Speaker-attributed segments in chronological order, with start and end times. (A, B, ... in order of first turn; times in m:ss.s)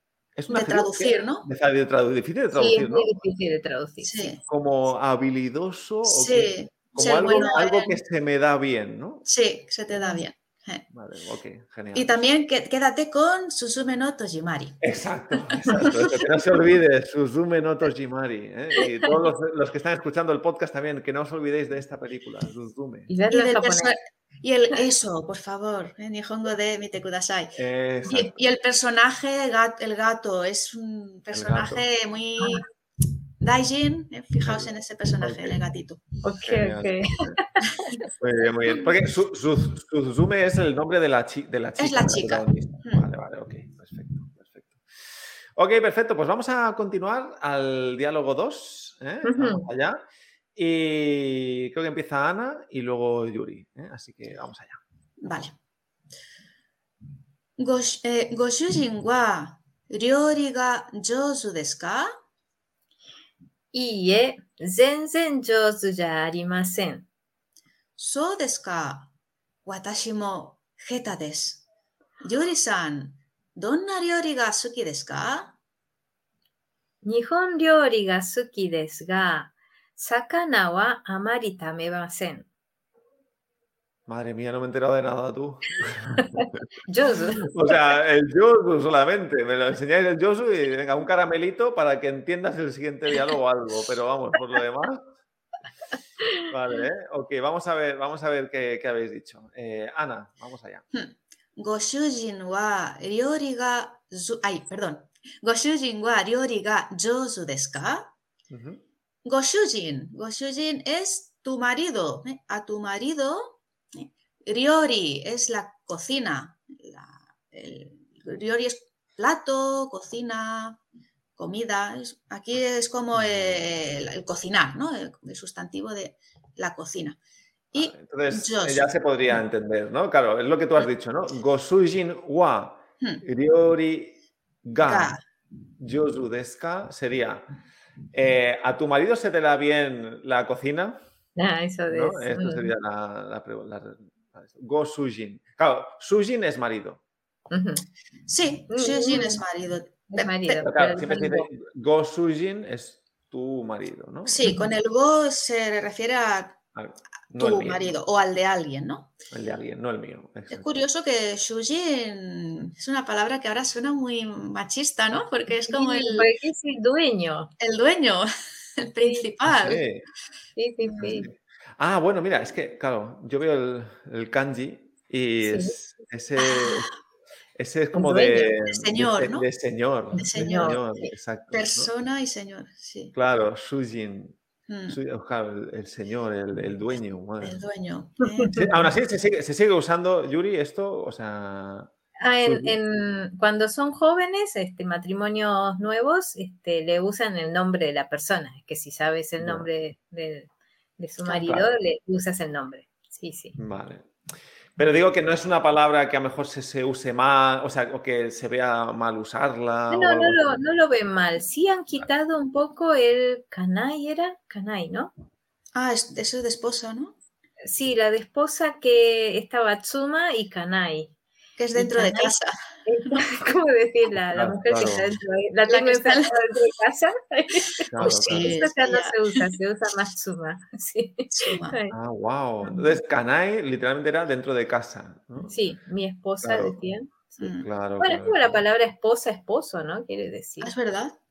0:00.4-0:03.2 A
0:00.5-0:01.5 B
0:02.5-0:04.4 C
0:04.0-0:04.4 B
0:04.5-0:09.2 A
0:06.0-0:08.0 B
0:09.3-0:10.8 B
0:09.9-0:10.2 C
0:10.9-0:12.2 A
0:11.9-0:14.8 B
0:14.8-0:23.1 A
0:15.7-0:16.1 B
0:23.1-0:24.0 C
0:23.3-0:32.7 B
0:27.6-0:28.3 A
0:31.3-0:31.8 A
0:33.4-0:36.0 B
0:34.4-0:35.6 A
0:36.2-0:37.6 C
0:36.4-0:37.4 A
0:38.2-0:44.8 A
0:41.8-0:43.1 B
0:45.6-0:50.0 A
0:49.2-0:49.7 C
0:50.6-0:54.8 A
0:55.2-0:55.5 B
0:57.6-1:02.1 B
1:03.7-1:07.1 C
1:08.0-1:09.1 B
1:09.7-1:11.6 B
1:12.2-1:15.6 B
1:17.0-1:22.5 C
1:24.1-1:26.6 A
1:26.3-1:27.5 C
1:27.4-1:35.0 A
1:36.5-1:40.8 A
1:40.9-1:48.1 B
1:48.5-1:48.8 A
1:49.2-2:00.8 B
2:01.4-2:07.2 B
2:03.1-2:03.6 A
2:07.7-2:08.9 B
2:07.8-2:15.2 A
2:14.8-2:15.2 B
2:15.8-2:17.5 A
2:18.1-2:21.0 A
2:21.4-2:22.7 C
2:21.9-2:27.0 A
2:27.5-2:27.8 C
2:28.3-2:30.6 B
2:28.7-2:29.4 C
2:30.1-2:31.5 C
2:30.6-2:34.5 A
2:34.3-2:36.6 B
2:36.8-2:37.9 A
2:37.3-2:39.2 B
2:39.3-2:40.7 A
2:40.5-2:46.3 B
2:45.7-2:47.5 C
2:47.6-2:49.8 B
2:49.0-2:49.3 C
2:49.4-2:50.1 A
2:50.6-2:51.3 C
2:51.0-2:56.9 A
2:55.4-2:55.8 C
2:56.4-2:56.9 B
2:57.6-3:01.9 A
2:57.9-2:58.5 C
2:58.4-2:59.5 B
3:00.2-3:00.8 C
3:00.2-3:00.8 B
3:01.5-3:03.1 B
3:03.1-3:04.4 A
3:04.7-3:05.0 B
3:04.9-3:07.6 A
3:07.4-3:08.8 B
3:08.6-3:11.9 A
3:12.2-3:23.6 C
3:12.4-3:12.8 A
3:19.4-3:19.7 A
3:21.2-3:21.7 A
3:23.6-3:24.1 A
3:24.8-3:30.6 A
3:29.9-3:35.1 C
3:35.8-3:37.2 B
3:37.6-3:41.1 C
3:41.6-3:42.5 B
3:41.8-3:42.3 C
3:42.9-3:51.9 C
3:44.3-3:45.1 A
3:45.7-3:46.4 B
3:47.9-3:48.6 A
3:48.0-3:49.4 B
3:51.3-3:51.8 B
3:51.9-3:55.6 A
3:52.6-3:52.9 C
3:55.5-3:57.4 C
3:56.4-3:56.9 A
3:57.4-3:57.7 B
3:57.6-3:58.6 A
3:58.0-4:00.7 C
4:00.6-4:01.2 B